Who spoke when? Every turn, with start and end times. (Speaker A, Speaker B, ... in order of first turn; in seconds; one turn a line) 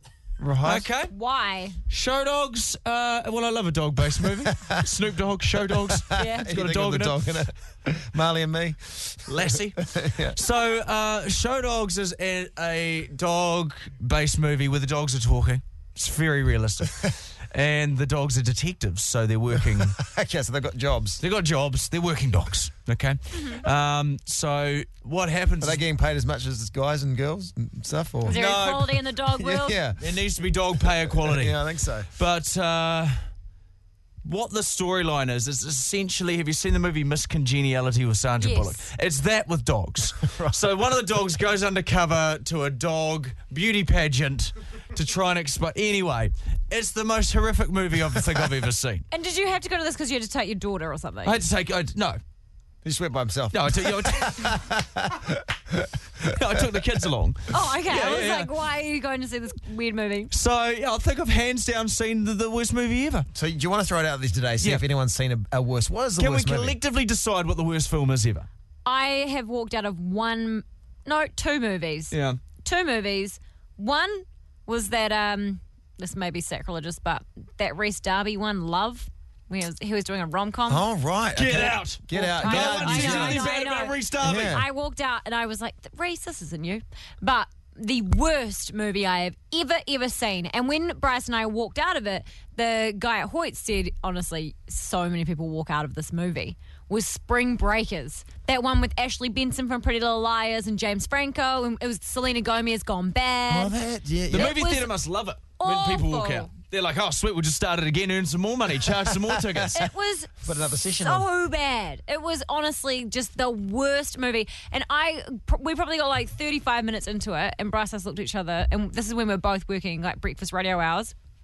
Speaker A: 0.4-0.9
Speaker B: 0.6-1.1
Speaker C: 1.1-1.8
Speaker B: 1.9-7.3
Speaker A: 4.4-4.8
Speaker A: 5.6-10.4
Speaker C: 6.1-6.5
Speaker B: 9.3-9.8
Speaker B: 10.3-19.9
Speaker A: 19.7-21.2
Speaker B: 21.2-25.8
Speaker C: 23.3-23.6
Speaker A: 25.6-28.4
Speaker C: 28.2-29.8
Speaker B: 28.3-29.0
Speaker A: 29.4-30.0
Speaker B: 30.0-31.6
Speaker A: 31.0-32.1
Speaker B: 32.2-33.2
Speaker B: 34.2-49.0
Speaker C: 38.4-38.9
Speaker A: 40.2-40.6
Speaker C: 49.1-51.4
Speaker B: 51.2-52.2
Speaker A: 52.8-56.3
Speaker B: 53.5-54.6
Speaker B: 56.3-58.5
Speaker C: 57.5-60.3
Speaker B: 60.3-63.2
Speaker A: 63.3-66.8
Speaker B: 66.2-68.5
Speaker C: 68.8-80.8
Speaker B: 72.1-72.4
Speaker A: 80.7-83.5
Speaker B: 81.3-84.5
Speaker C: 82.2-103.7
Speaker A: 84.2-84.6
Speaker A: 103.5-104.6
Speaker B: 104.3-109.8
Speaker C: 104.3-104.9
Speaker C: 105.6-106.5
Speaker A: 108.9-109.9
Speaker C: 109.7-110.3
Speaker A: 110.4-111.3
Speaker C: 111.0-121.1